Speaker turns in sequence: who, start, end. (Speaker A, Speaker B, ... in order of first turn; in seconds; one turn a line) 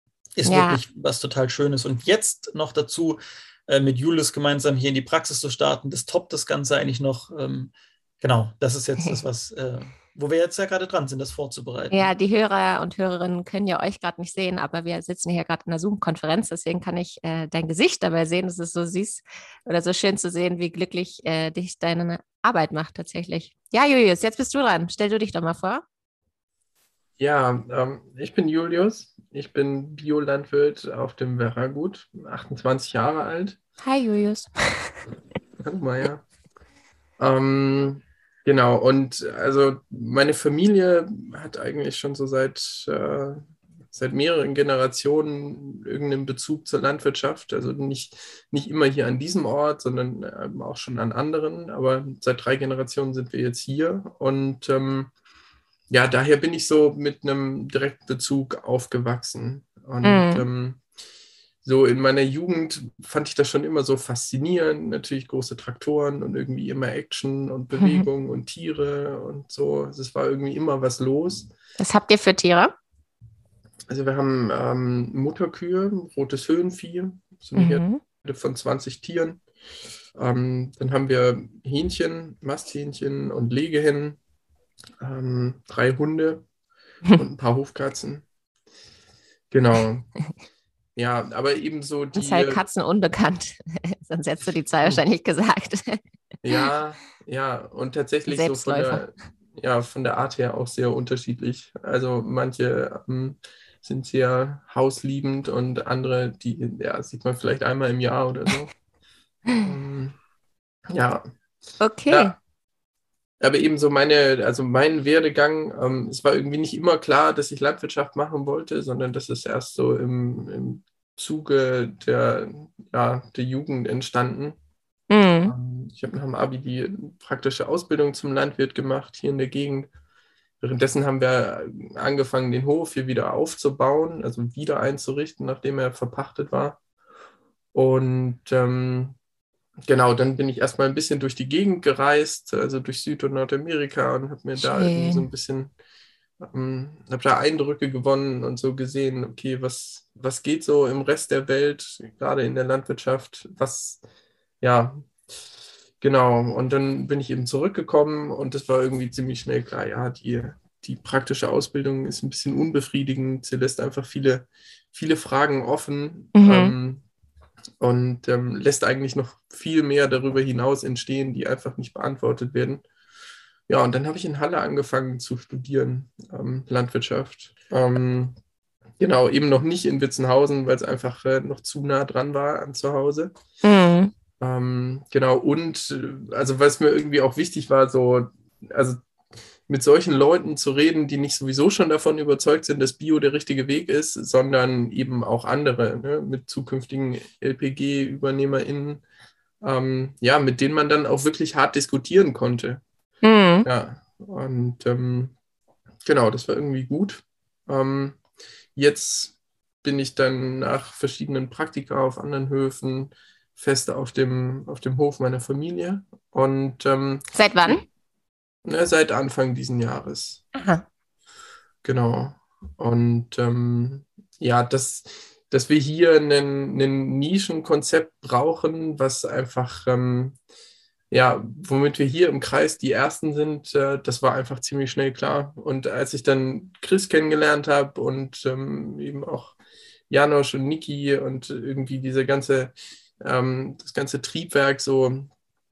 Speaker A: 0.4-12.1
Speaker B: 0.5-0.8
Speaker B: 11.9-25.8
Speaker C: 27.2-33.6
Speaker B: 33.8-35.0
Speaker C: 35.6-36.2
Speaker C: 37.2-55.1
Speaker C: 55.9-60.8
Speaker B: 60.0-60.5
Speaker C: 61.6-71.5
Speaker B: 67.8-68.1
Speaker B: 71.8-72.7
Speaker C: 73.9-79.4
Speaker B: 77.6-78.0
Speaker C: 80.2-84.2
Speaker C: 85.0-86.5
Speaker C: 87.2-88.2
Speaker C: 89.5-90.1
Speaker C: 91.0-92.6
Speaker B: 92.2-96.0
Speaker C: 96.4-108.7
Speaker B: 98.3-99.0
Speaker C: 109.6-110.2
Speaker C: 110.9-111.2
Speaker B: 111.8-112.3
Speaker C: 112.1-112.4
Speaker C: 113.4-124.6
Speaker B: 125.1-125.5
Speaker C: 125.5-129.9
Speaker C: 130.6-136.8
Speaker C: 137.7-139.2
Speaker C: 139.8-145.7
Speaker B: 144.6-145.3
Speaker C: 146.4-154.0
Speaker C: 154.6-155.1
Speaker C: 156.0-167.0
Speaker B: 166.4-166.7
Speaker C: 167.8-172.8
Speaker C: 173.7-178.4
Speaker C: 179.0-183.3
Speaker B: 183.6-184.1
Speaker C: 184.4-189.0
Speaker C: 189.7-199.0
Speaker C: 199.6-202.8
Speaker B: 203.2-203.7
Speaker C: 203.7-205.3
Speaker C: 206.1-208.2
Speaker C: 208.8-217.8
Speaker B: 217.3-217.8
Speaker C: 218.7-220.4
Speaker B: 220.5-220.8
Speaker C: 221.8-230.4
Speaker C: 231.1-239.6
Speaker C: 240.1-245.3